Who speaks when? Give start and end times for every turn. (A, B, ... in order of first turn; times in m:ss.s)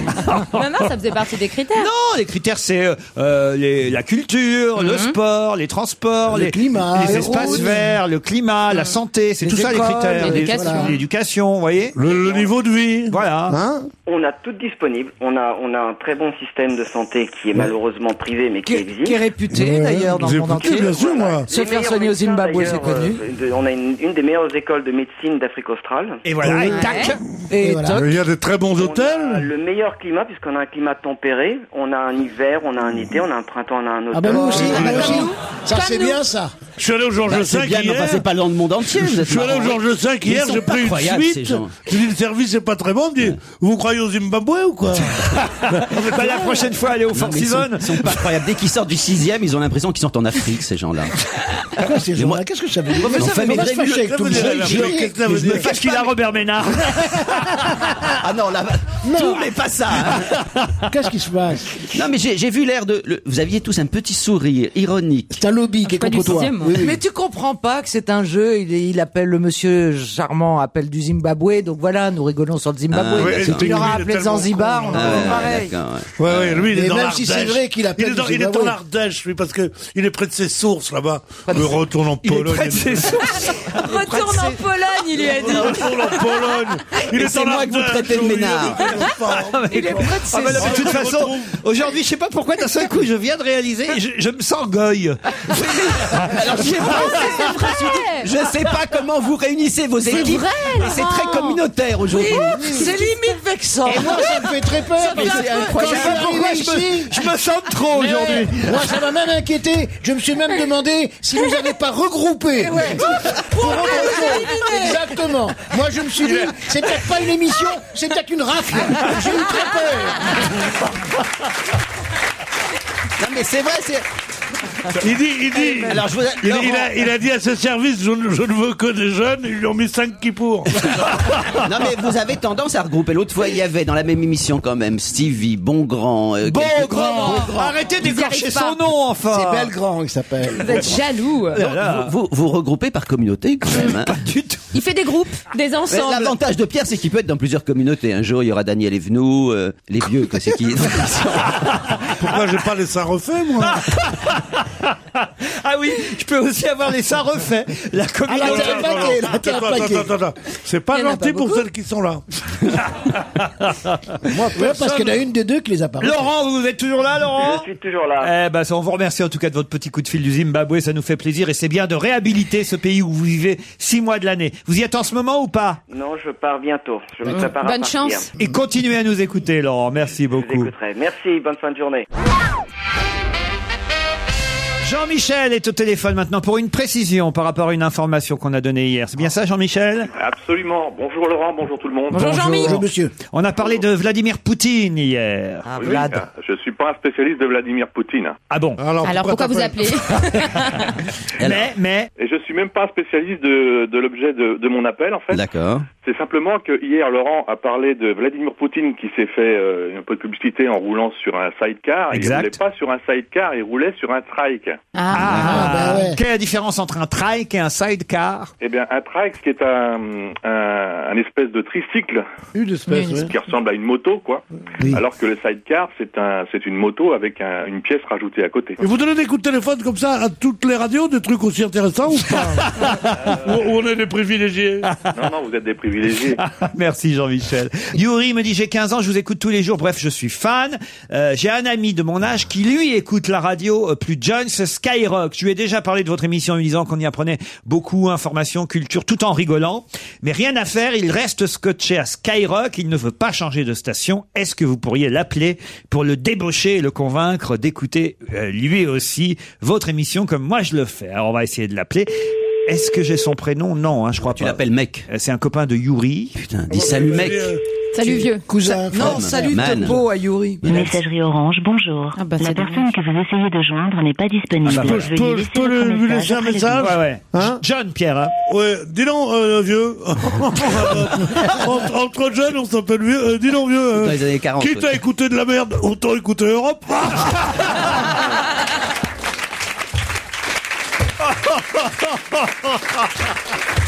0:00.2-0:00.6 A
0:00.5-0:01.9 B
0:01.8-0:12.0 A
0:04.8-0:05.1 B
0:06.3-0:07.9 C
0:07.0-0:07.8 D
0:09.4-0:10.9 D
0:10.2-0:10.9 B
0:10.5-0:10.9 C
0:12.0-0:13.8 E
0:12.0-0:12.5 F
0:13.1-0:13.6 A
0:14.0-0:19.2 F
0:18.6-0:23.2 D
0:19.5-0:21.5 E
0:20.6-0:26.2 F
0:26.2-0:27.2 A
0:26.4-0:26.7 E
0:26.6-0:27.2 B
0:27.5-0:28.1 D
0:27.6-0:28.0 C
0:27.9-0:29.5 E
0:28.8-0:35.2 F
0:34.1-0:36.5 C
0:34.5-0:35.3 E
0:34.6-0:36.2 B
0:36.8-0:38.2 E
0:37.3-0:41.9 G
0:38.9-0:46.6 E
0:45.3-0:48.2 A
0:47.1-0:51.1 G
0:51.8-0:55.2 C
0:52.1-0:52.4 G
0:53.0-0:55.7 G
0:53.6-0:55.7 E
0:55.5-0:57.9 A
0:58.1-1:00.3 G
0:59.0-0:59.4 C
1:00.3-1:00.8 A
1:00.9-1:01.8 C
1:01.9-1:05.4 G
1:05.3-1:07.0 C
1:06.0-1:06.7 B
1:06.7-1:15.7 D
1:12.9-1:14.0 G
1:13.2-1:15.4 E
1:14.9-1:16.6 G
1:16.2-1:23.1 E
1:16.7-1:18.8 C
1:21.4-1:21.8 D
1:22.2-1:23.9 A
1:23.7-1:26.4 B
1:23.8-1:25.5 D
1:25.4-1:31.6 E
1:27.1-1:29.0 G
1:29.4-1:35.5 A
1:29.7-1:31.1 D
1:35.6-1:42.9 G
1:36.1-1:36.5 A
1:36.8-1:38.3 B
1:40.1-1:41.6 B
1:42.1-1:44.4 D
1:42.2-1:43.2 B
1:43.8-1:47.1 C
1:45.0-1:46.2 D
1:45.1-1:46.5 G
1:45.8-1:48.8 A
1:47.9-1:48.5 B
1:48.6-2:00.4 C
1:52.6-1:54.9 D
1:53.7-1:54.8 B
2:03.2-2:04.0 G
2:05.0-2:10.9 E
2:05.6-2:07.1 G
2:11.0-2:11.6 A
2:11.5-2:17.7 G
2:16.4-2:19.7 A
2:17.1-2:18.8 B
2:19.3-2:21.0 C
2:20.6-2:21.6 B
2:21.5-2:22.1 A
2:21.6-2:24.2 G
2:23.7-2:24.7 A
2:24.7-2:26.3 B
2:25.9-2:31.7 G
2:31.6-2:32.0 A
2:32.1-2:33.8 E
2:33.6-2:39.4 A
2:38.3-2:40.1 C
2:38.3-2:42.2 E
2:40.9-2:41.6 B
2:42.7-2:45.1 A
2:44.3-2:46.3 C
2:46.0-2:47.6 A
2:47.4-2:48.3 F
2:48.2-2:55.8 A
2:55.9-2:58.2 F
2:57.3-2:58.2 B
2:58.4-3:00.7 A
3:00.3-3:02.0 F
3:04.8-3:10.1 A
3:10.1-3:12.4 H
3:12.1-3:12.7 B
3:12.1-3:12.8 D
3:12.5-3:13.1 C
3:13.3-3:15.7 A
3:15.6-3:16.2 D
3:15.8-3:18.4 H
3:18.5-3:18.8 A
3:18.8-3:20.0 E
3:19.0-3:20.9 B
3:21.4-3:21.7 G
3:21.4-3:22.1 A
3:22.2-3:25.4 H
3:25.3-3:25.8 G
3:26.0-3:34.8 H
3:32.1-3:32.6 A
3:34.9-3:36.0 B
3:35.1-3:38.5 A
3:35.3-3:36.2 C
3:38.6-3:42.2 H
3:42.5-3:43.2 E
3:42.9-3:43.3 B
3:43.3-3:48.8 H
3:48.8-3:54.9 E
3:52.4-3:53.3 A
3:54.8-3:55.1 A
3:55.1-3:56.4 H
3:56.4-4:22.1 A
4:22.7-4:26.4 A
4:24.3-4:25.1 G
4:26.4-4:27.6 G
4:26.7-4:27.6 E
4:27.9-4:28.5 B
4:28.1-4:29.3 C
4:28.6-4:30.6 D
4:28.9-4:30.0 G
4:30.6-4:31.0 G
4:30.7-4:36.9 I
4:32.1-4:32.9 B
4:34.6-4:37.6 E
4:36.8-4:38.3 A
4:38.5-4:47.5 E
4:43.9-4:44.9 G
4:47.7-4:48.0 A
4:51.2-4:53.1 A